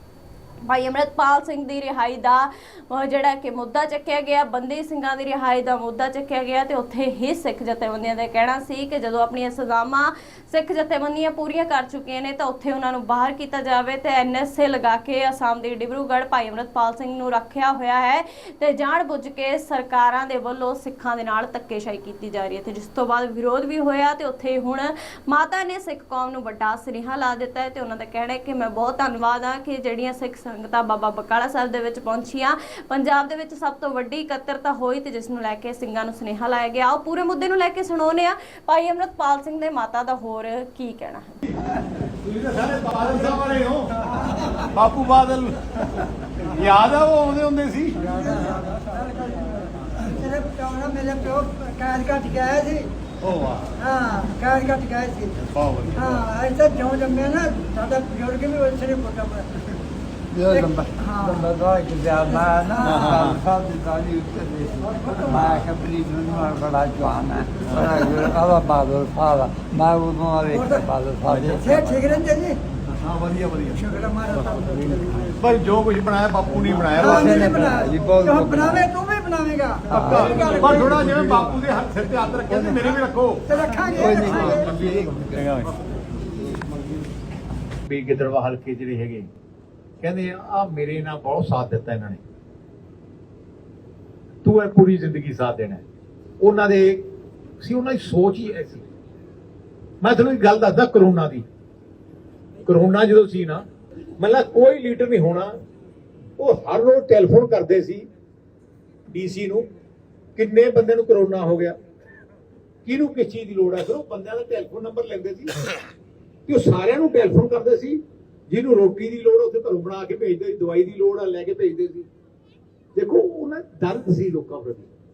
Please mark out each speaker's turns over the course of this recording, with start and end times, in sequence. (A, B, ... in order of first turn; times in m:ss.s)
0:00.6-0:41.4 A
0:41.7-0:48.1 B
0:48.1-0:52.9 C
0:53.2-0:53.8 B
0:53.8-0:55.3 C
0:55.4-0:56.2 B
0:55.9-0:59.5 C
1:00.3-1:12.2 D
1:00.5-1:01.5 C
1:02.7-1:03.0 C
1:02.8-1:03.4 B
1:05.0-1:05.6 C
1:07.6-1:08.1 B
1:10.5-1:10.8 C
1:11.6-1:12.6 C
1:12.9-1:13.9 B
1:13.8-1:15.3 C
1:15.4-1:17.8 B
1:16.9-1:18.9 D
1:17.0-1:21.0 C
1:19.9-1:23.5 B
1:19.9-1:20.9 D
1:23.5-1:24.8 C
1:23.9-1:25.3 D
1:24.0-1:25.7 B
1:27.9-1:29.3 B
1:30.0-1:32.2 B
1:34.4-1:35.8 B
1:36.4-1:37.1 B
1:37.6-1:38.8 B
1:40.0-1:41.4 B
1:42.6-1:43.6 B
1:44.2-1:45.5 B
1:46.4-1:48.0 B
1:49.1-1:49.6 B
1:50.4-1:51.7 B
1:52.8-1:55.6 B
1:56.5-2:02.1 B
2:02.9-2:04.9 B